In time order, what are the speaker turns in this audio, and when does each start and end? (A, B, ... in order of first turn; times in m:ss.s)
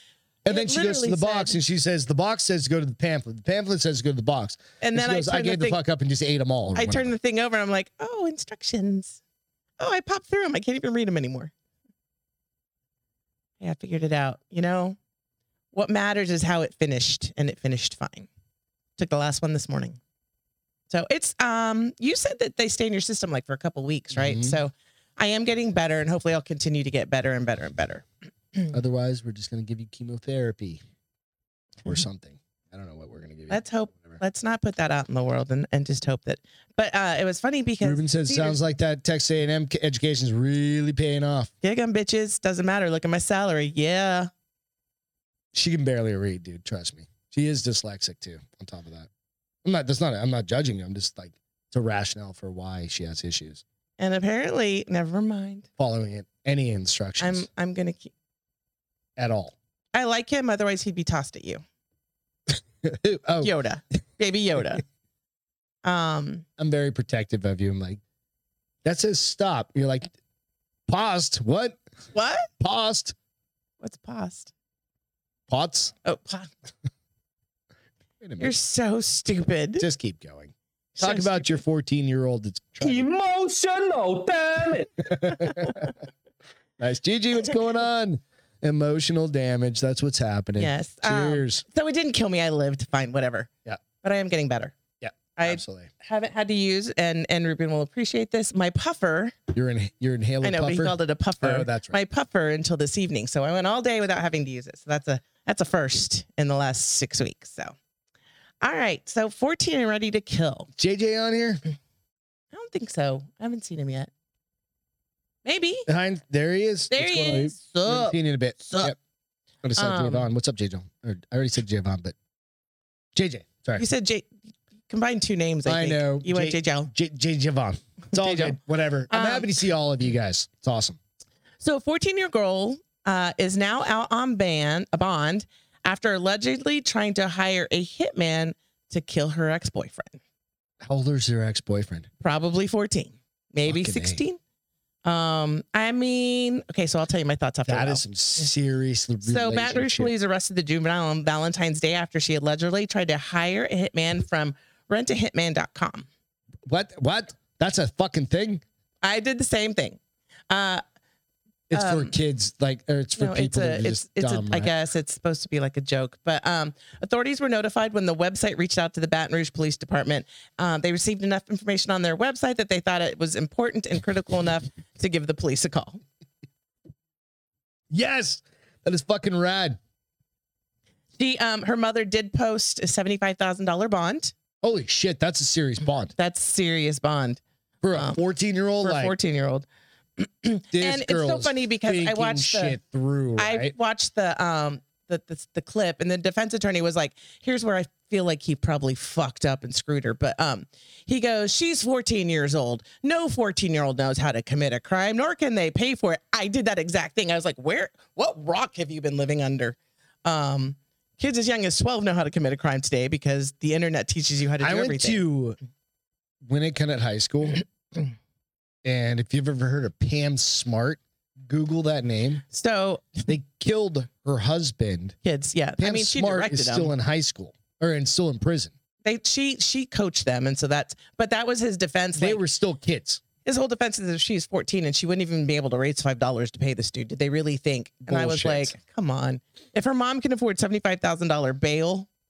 0:00.4-0:01.6 A
0:00.5-0:07.1 B
0:04.8-0:05.8 A
0:06.8-0:09.2 A
0:09.8-0:11.5 A
0:13.6-0:15.0 A
0:15.7-0:18.3 A
0:19.0-0:20.0 A
0:20.9-0:28.7 A
0:24.1-0:24.6 B
0:28.7-0:30.8 B
0:31.8-0:34.2 B
0:33.5-0:38.6 A
0:37.8-0:41.5 B
0:41.6-0:44.3 A
0:45.5-0:49.1 B
0:49.6-0:53.6 B
0:54.0-0:55.7 A
0:55.8-0:57.5 B
0:57.2-0:58.1 A
0:59.2-0:59.6 B
0:59.9-1:01.6 A
1:02.5-1:03.5 B
1:03.4-1:04.8 A
1:05.8-1:06.4 A
1:06.6-1:08.0 B
1:08.8-1:10.1 B
1:10.9-1:11.8 B
1:12.1-1:12.5 A
1:12.6-1:13.1 B
1:13.8-1:14.5 A
1:15.5-1:15.9 B
1:16.0-1:16.5 A
1:18.2-1:18.5 B
1:18.4-1:19.8 A
1:19.8-1:23.1 B
1:21.0-1:21.6 A
1:22.8-1:25.0 C
1:25.0-1:25.9 B
1:26.8-1:31.6 B
1:30.6-1:34.7 A
1:35.0-1:35.9 B
1:35.4-1:39.4 A
1:39.5-1:42.0 B
1:40.4-1:47.7 A
1:48.6-1:50.7 A
1:50.8-1:51.6 B
1:52.5-1:54.1 A
1:55.4-1:55.8 A
1:55.9-1:59.0 B
1:56.9-1:58.9 A
1:59.6-2:02.2 B
1:59.8-2:00.3 A
2:03.2-2:03.8 B
2:03.8-2:04.3 A
2:04.9-2:06.9 A
2:05.7-2:11.0 B
2:08.1-2:08.6 A
2:09.1-2:09.5 A
2:11.6-2:20.2 A
2:20.8-2:22.1 B
2:22.2-2:24.4 A
2:23.6-2:24.2 B
2:25.0-2:28.0 A
2:27.7-2:30.1 B
2:29.2-2:36.1 A
2:36.7-2:38.6 B
2:39.0-2:40.0 A
2:40.5-2:40.8 A
2:41.7-2:44.7 B
2:41.7-2:42.1 A
2:43.2-2:56.0 A
2:57.9-2:59.8 B
3:01.2-3:04.3 A
3:04.6-3:06.1 B
3:06.2-3:07.4 A
3:07.8-3:09.2 B
3:07.9-3:08.2 A
3:08.8-3:12.8 A
3:10.7-3:13.7 B
3:13.4-3:35.2 A
3:34.6-3:35.6 B
3:36.5-3:37.6 B
3:38.8-3:42.4 B
3:42.5-3:43.3 A
3:43.3-3:45.2 B
3:45.2-3:46.9 A
3:45.8-3:48.7 B
3:49.0-3:52.4 A
3:52.2-3:53.2 B
3:53.4-4:02.1 A
3:58.1-3:58.8 B